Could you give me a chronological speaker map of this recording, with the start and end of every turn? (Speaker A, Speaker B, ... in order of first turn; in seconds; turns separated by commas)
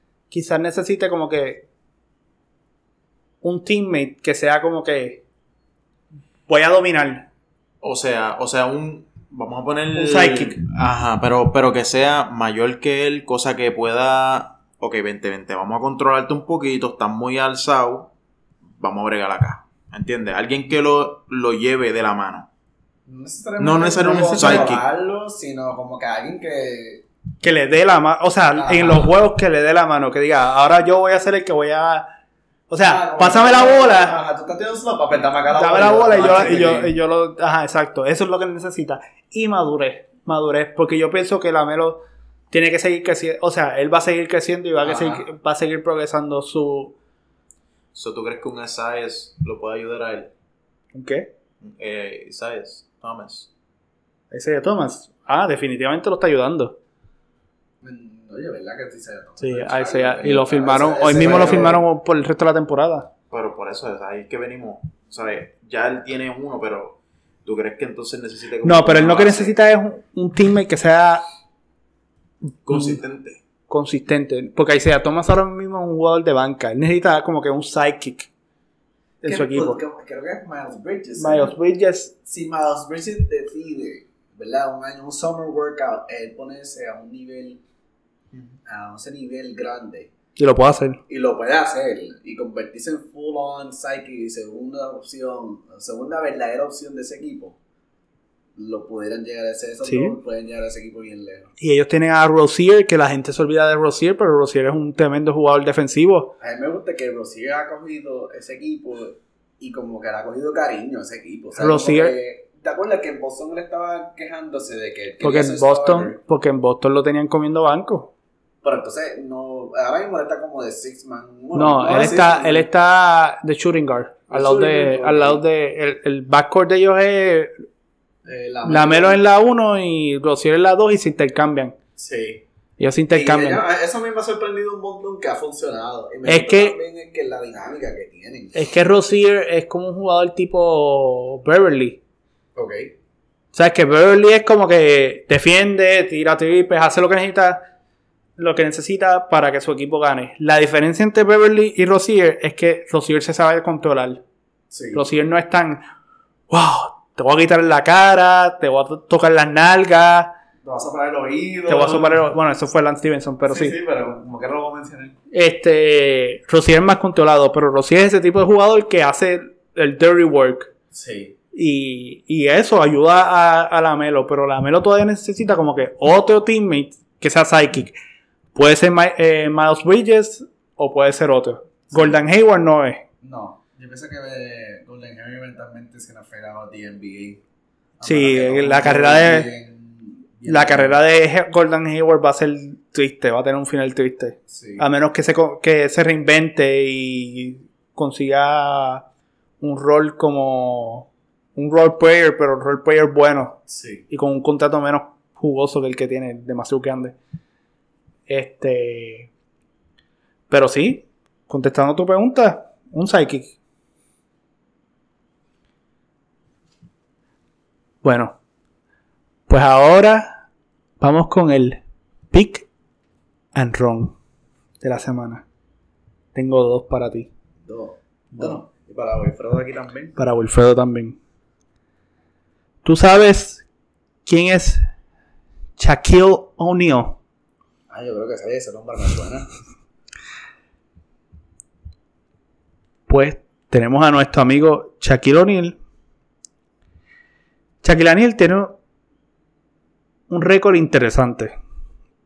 Speaker A: 0.3-1.6, Speaker A: 3.4-5.2, Speaker A: 6.5-7.2, Speaker B: 7.8-18.1, Speaker A: 9.9-10.6, Speaker B: 18.8-22.5, Speaker C: 23.1-27.0, Speaker B: 23.6-24.8, Speaker A: 24.0-24.7, Speaker A: 27.4-32.1, Speaker C: 28.5-29.2, Speaker A: 32.7-34.2, Speaker C: 32.8-36.9, Speaker A: 35.5-46.9, Speaker C: 44.8-45.2, Speaker B: 47.9-50.3, Speaker A: 50.9-51.3, Speaker B: 51.6-53.5, Speaker A: 54.3-56.8, Speaker C: 57.8-61.8, Speaker A: 59.4-63.1, Speaker B: 63.3-69.5, Speaker A: 68.6-71.2, Speaker B: 72.7-73.4, Speaker A: 72.7-73.0, Speaker A: 73.7-78.3, Speaker A: 79.2-79.8, Speaker C: 79.2-81.5, Speaker A: 81.2-82.1, Speaker C: 82.2-87.6, Speaker C: 88.7-90.1, Speaker A: 90.4-91.0, Speaker C: 91.1-97.6, Speaker C: 98.6-101.5, Speaker A: 99.9-100.2, Speaker A: 101.6-106.3, Speaker C: 106.4-116.2, Speaker A: 111.6-112.1, Speaker A: 115.2-118.1, Speaker C: 118.6-122.7, Speaker A: 121.5-127.5, Speaker C: 124.3-125.4, Speaker C: 128.2-129.2, Speaker A: 128.7-131.7, Speaker C: 132.0-132.4, Speaker A: 132.8-133.6, Speaker C: 133.1-138.6, Speaker A: 136.2-136.7, Speaker A: 138.5-142.0, Speaker C: 142.6-142.9, Speaker A: 143.5-147.6, Speaker A: 148.4-154.2, Speaker C: 154.7-155.0, Speaker A: 154.9-155.8, Speaker A: 156.5-160.3, Speaker C: 160.6-162.2, Speaker A: 161.7-163.7, Speaker C: 163.4-165.2, Speaker A: 165.3-170.7, Speaker C: 170.9-171.3, Speaker A: 171.5-177.9, Speaker A: 178.5-183.0, Speaker C: 181.9-182.2, Speaker C: 183.2-187.4, Speaker C: 188.0-191.0, Speaker A: 188.0-189.5, Speaker A: 190.5-199.0, Speaker C: 194.5-194.8, Speaker A: 199.6-207.1, Speaker C: 203.7-204.0, Speaker A: 208.3-209.3, Speaker A: 210.5-213.5, Speaker A: 218.0-218.3, Speaker A: 219.5-220.3, Speaker A: 221.0-221.8, Speaker A: 222.3-222.7, Speaker A: 223.5-224.1, Speaker A: 224.8-225.4, Speaker A: 226.3-227.3, Speaker C: 227.6-230.1, Speaker A: 230.2-231.2, Speaker A: 232.8-233.6, Speaker A: 234.2-234.8, Speaker A: 235.8-237.2, Speaker C: 237.9-239.5, Speaker A: 243.1-245.8, Speaker A: 247.8-248.7, Speaker A: 250.3-251.5